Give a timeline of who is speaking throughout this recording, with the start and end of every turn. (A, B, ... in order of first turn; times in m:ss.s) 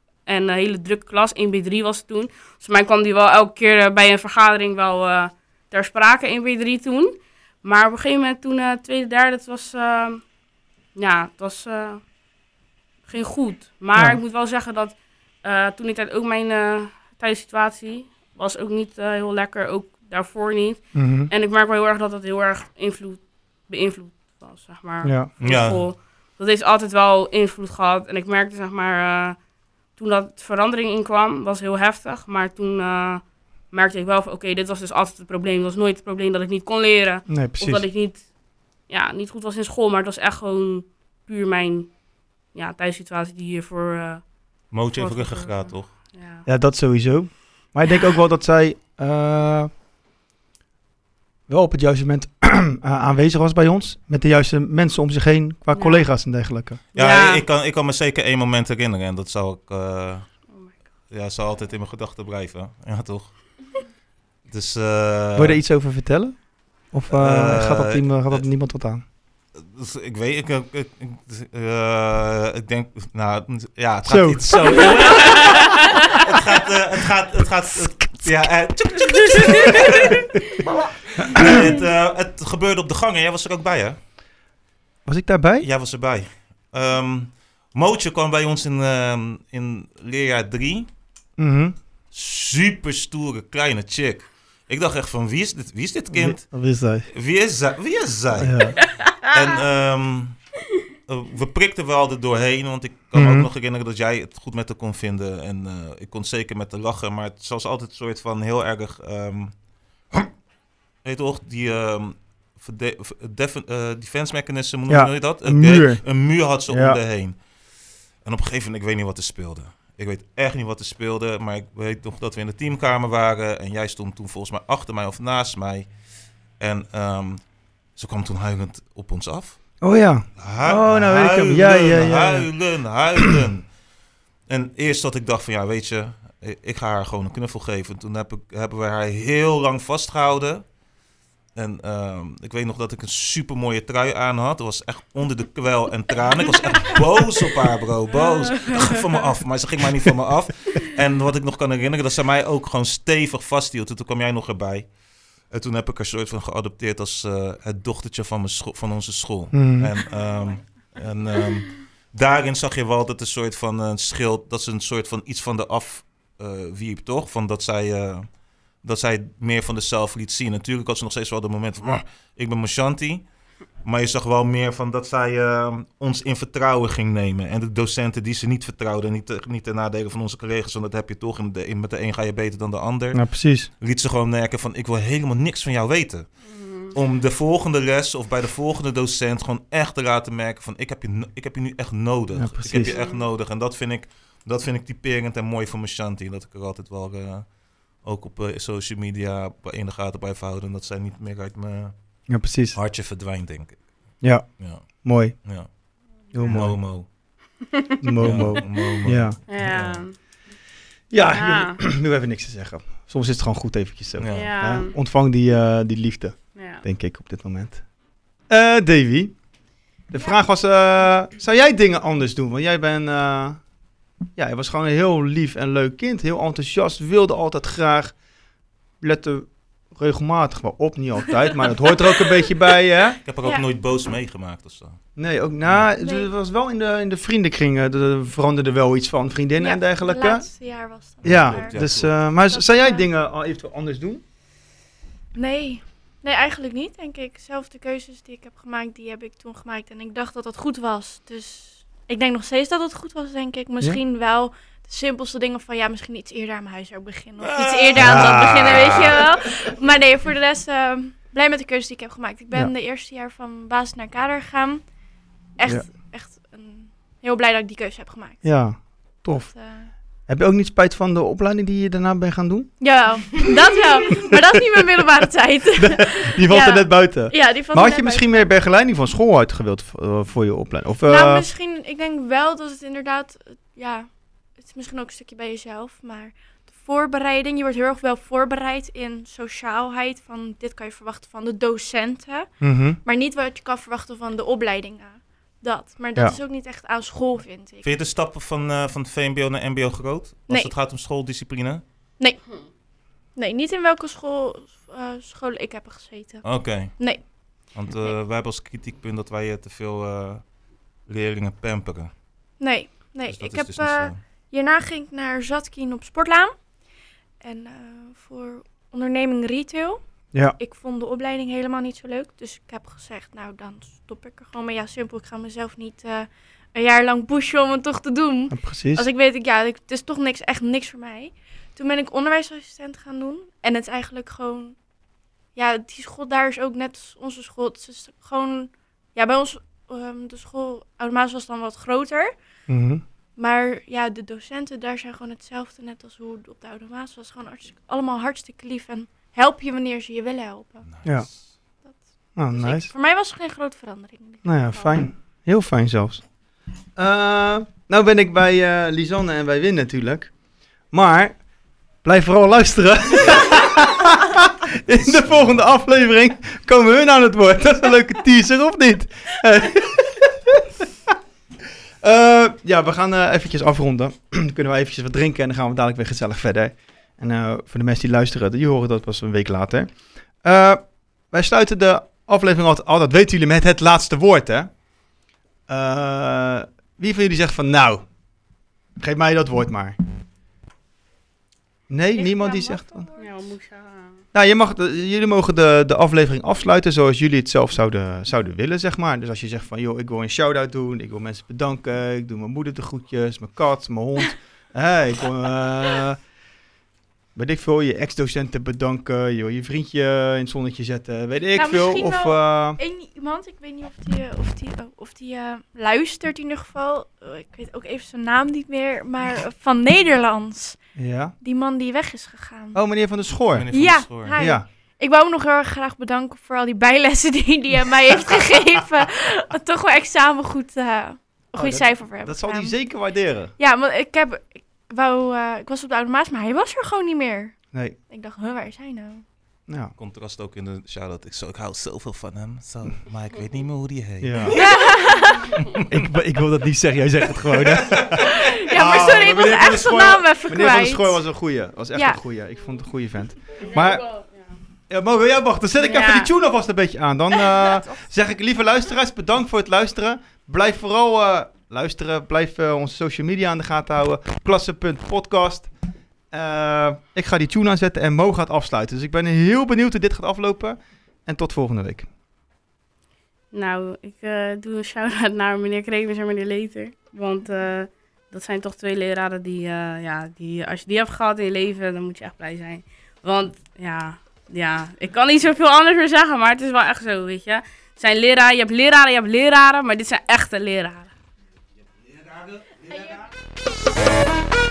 0:00.2-0:10.2 A
0:10.9-0:12.0 A
0:13.1-0:29.4 A
0:13.9-0:14.2 B
0:20.9-0:21.3 B
0:25.0-0:25.3 B
0:25.4-0:25.8 C
0:29.9-0:38.3 A
0:37.3-0:37.8 B
0:38.9-0:41.9 A
0:42.5-0:46.4 A
0:44.7-0:45.9 C
0:46.4-0:49.7 B
0:51.5-0:56.8 B
0:55.7-0:56.1 A
0:56.9-0:57.4 A
0:56.9-1:00.4 C
1:00.5-1:00.8 A
1:01.1-1:03.8 C
1:04.5-1:05.6 C
1:05.4-1:09.0 B
1:07.1-1:08.4 C
1:09.5-1:20.3 C
1:14.0-1:15.7 B
1:17.7-1:18.3 B
1:21.2-1:24.0 C
1:21.2-1:21.7 B
1:25.0-1:25.7 B
1:25.6-1:30.9 C
1:31.4-1:31.8 B
1:32.1-1:36.4 C
1:36.1-1:37.1 B
1:37.1-1:40.4 C
1:38.4-1:38.8 B
1:41.0-1:49.6 C
1:43.1-1:43.5 B
1:51.0-1:57.4 C
1:54.9-1:57.0 B
1:58.2-2:05.9 C
2:06.6-2:09.7 C
2:09.8-2:12.5 B
2:10.4-2:13.7 C
2:14.5-2:20.7 C
2:21.5-2:34.9 C
2:28.5-2:29.1 A
2:35.5-2:53.3 C
2:39.5-2:39.9 B
2:53.8-3:22.2 C
3:03.1-3:03.7 B
3:06.4-3:06.9 A
3:12.3-3:12.9 B
3:12.7-3:13.2 A
3:22.3-3:22.8 B
3:22.7-3:25.7 C
3:24.2-3:25.4 B
3:26.3-3:26.8 B
3:26.4-3:27.1 C
3:27.7-3:28.9 A
3:28.0-3:29.4 B
3:28.2-3:30.0 C
3:29.5-3:30.2 A
3:31.1-3:37.8 B
3:31.3-3:31.8 A
3:34.2-3:34.5 C
3:34.3-3:34.9 A
3:36.5-3:36.8 A
3:38.5-3:39.4 B
3:40.1-3:43.6 B
3:44.4-3:48.1 B
3:49.0-3:53.2 B
3:53.2-3:55.0 C
3:53.4-3:53.7 D
3:55.2-4:00.5 B
3:56.0-3:56.3 D
3:59.6-4:03.0 D
4:01.2-4:02.1 C
4:01.2-4:04.2 B
4:05.3-4:24.8 D
4:17.4-4:19.7 C
4:18.0-4:19.2 B
4:25.6-4:29.9 D
4:28.4-4:29.5 B
4:30.3-4:33.5 B
4:32.8-4:38.5 D
4:35.8-4:41.4 B
4:41.0-4:57.9 D
4:52.6-4:53.0 B
4:57.8-5:01.8 C
5:03.4-5:08.1 D
5:06.4-5:07.1 C
5:07.7-5:10.4 C
5:11.1-5:12.1 C
5:12.6-5:16.6 D
5:13.3-5:14.2 C
5:17.4-5:34.8 D
5:28.5-5:29.0 B
5:35.5-5:42.3 D
5:42.7-5:43.0 B
5:43.4-5:50.8 D
5:50.9-5:51.5 C
5:52.4-5:52.9 B
5:52.5-5:55.0 D
5:54.4-5:56.2 B
5:57.0-6:00.3 B
6:00.9-6:01.4 B
6:02.0-6:11.1 B
6:12.0-6:24.7 B
6:25.7-6:28.1 B
6:29.0-6:30.0 B
6:31.9-6:33.1 B
6:32.1-6:33.3 D
6:33.2-6:34.2 A
6:34.3-6:46.2 B
6:47.3-6:52.8 B
6:51.5-7:00.8 D
7:01.0-7:01.3 B
7:01.4-7:02.8 D
7:02.7-7:03.7 B
7:03.5-7:04.4 C
7:03.7-7:12.8 D
7:04.4-7:04.6 B
7:11.5-7:13.5 B
7:13.6-7:19.2 D
7:19.7-7:19.9 B
7:20.0-7:24.5 C
7:24.2-7:24.6 B
7:24.5-7:25.6 D
7:25.9-7:34.0 B
7:27.6-7:28.1 C
7:28.1-7:31.2 D
7:28.8-7:29.2 C
7:31.9-7:32.2 D
7:33.5-7:34.6 A
7:34.9-7:45.7 B
7:35.8-7:36.3 A
7:46.3-7:52.1 B
7:53.5-8:11.1 A
8:12.8-8:13.2 D